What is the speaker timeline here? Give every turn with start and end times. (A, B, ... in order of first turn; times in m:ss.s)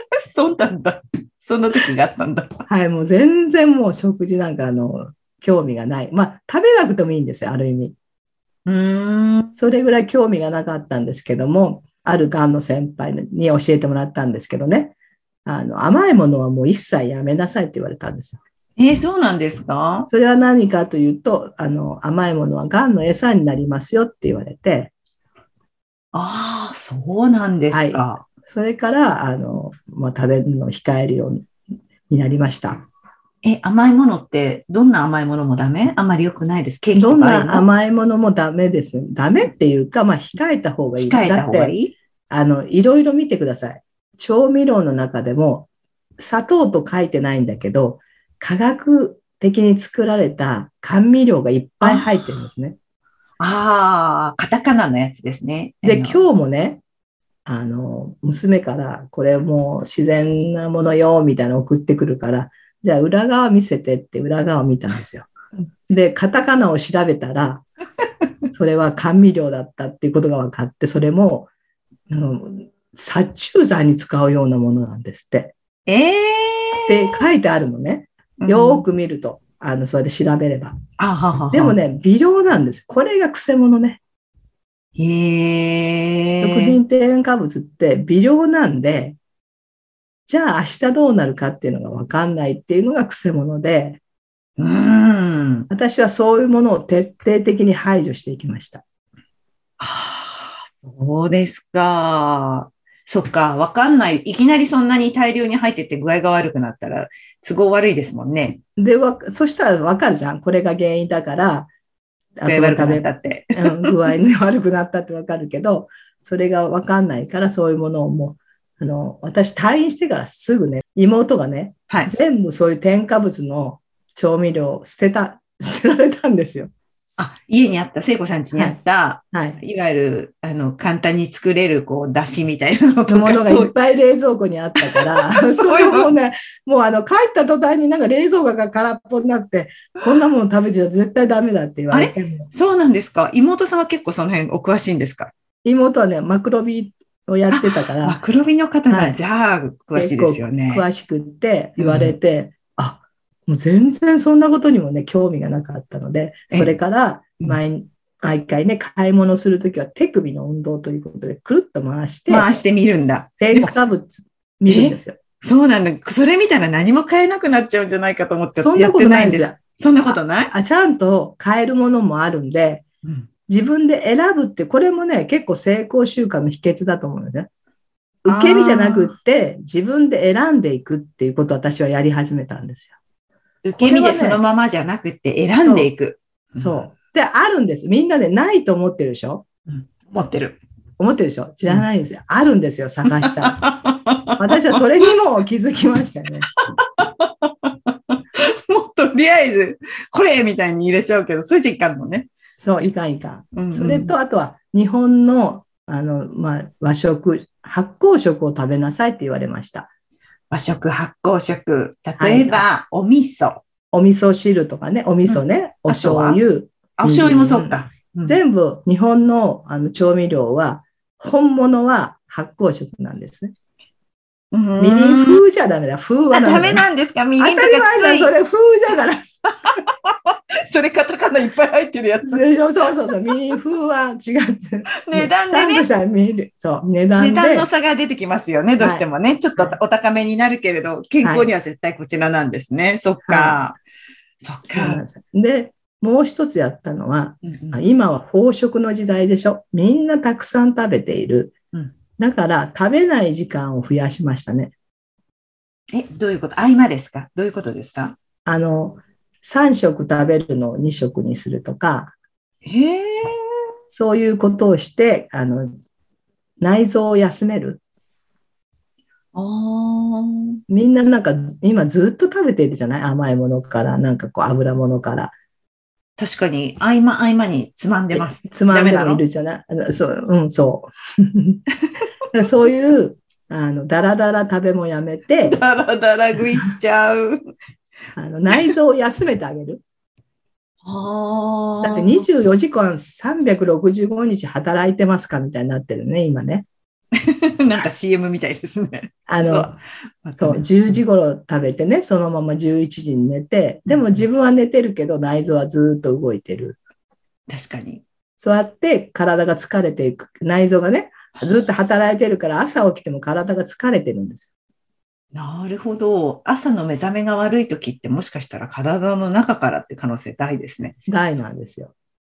0:00.3-0:02.6 A
0:02.7-0:08.0 B
0:08.6-0:09.5 A
0:09.5-0:18.4 B
0:18.8-0:20.1 A
0:20.1-0:24.9 B
0:26.1-0:28.2 A
0:27.7-0:31.5 B
0:32.1-0:32.8 B
0:33.4-0:37.7 A
0:36.9-0:41.7 B
0:41.0-0:41.9 A
0:42.3-0:45.7 B
0:46.2-0:52.8 B
0:51.8-0:52.1 A
0:53.4-0:56.2 A
0:55.8-0:56.8 B
0:57.4-1:05.3 B
1:05.9-1:07.6 B
1:08.5-1:11.5 B
1:12.1-1:15.5 B
1:15.9-1:17.0 A
1:16.8-1:20.8 B
1:18.4-1:18.8 A
1:21.0-1:21.8 A
1:21.5-1:24.0 B
1:25.0-1:26.8 A
1:26.4-1:29.2 B
1:30.2-1:34.0 B
1:34.6-1:35.7 A
1:35.7-1:38.8 B
1:39.8-1:48.6 A
1:48.8-1:51.7 B
1:52.4-2:06.7 B
1:52.5-1:54.0 A
2:07.2-2:13.7 A
2:09.3-2:09.6 B
2:13.1-2:22.5 B
2:14.8-2:16.1 A
2:21.9-2:25.3 A
2:25.6-2:28.2 B
2:27.5-2:30.8 A
2:28.9-2:29.2 B
2:29.9-2:42.5 B
2:31.8-2:32.1 A
2:42.3-2:43.7 A
2:43.4-2:45.2 B
2:44.7-2:50.5 A
2:48.6-2:49.6 B
2:50.1-2:52.8 B
2:53.5-2:57.5 B
2:58.2-3:03.0 B
2:58.3-2:59.1 A
3:03.6-3:06.8 A
3:03.7-3:04.4 B
3:05.6-3:05.9 B
3:06.6-3:09.4 B
3:09.7-3:10.6 A
3:11.0-3:13.6 B
3:13.1-3:14.7 A
3:14.4-3:16.5 B
3:16.8-3:22.9 A
3:22.6-3:29.9 B
3:23.5-3:24.1 A
3:30.5-3:33.6 A
3:32.2-3:32.7 B
3:33.9-3:43.5 B
3:35.3-3:36.4 A
3:37.0-3:38.4 A
3:44.5-3:45.4 A
3:44.8-3:46.8 B
3:46.3-3:48.3 A
3:47.4-3:49.2 B
3:49.6-3:52.4 A
3:52.2-3:57.7 B
3:55.0-3:55.8 A
3:57.2-4:03.8 A
3:58.8-3:59.0 B
4:01.2-4:01.5 B
4:03.2-4:03.6 B
4:04.4-4:05.0 A
4:04.6-4:11.5 B
4:07.4-4:07.8 A
4:12.2-4:14.7 B
4:15.9-4:18.2 A
4:18.4-4:22.1 B
4:22.6-4:23.4 A
4:23.9-4:25.8 B
4:26.6-4:27.8 B
4:29.3-4:30.6 A
4:30.7-4:35.3 B
4:36.2-4:39.2 A
4:38.1-4:41.6 B
4:42.3-4:45.6 B
4:45.4-4:47.4 A
4:48.2-4:49.8 B
4:50.8-4:52.2 A
4:51.8-4:56.7 B
4:57.2-5:01.0 A
4:59.3-4:59.8 B
5:00.4-5:06.8 B
5:03.9-5:04.2 A
5:07.5-5:08.0 A
5:08.4-5:14.5 B
5:15.3-5:21.0 A
5:21.1-5:21.9 B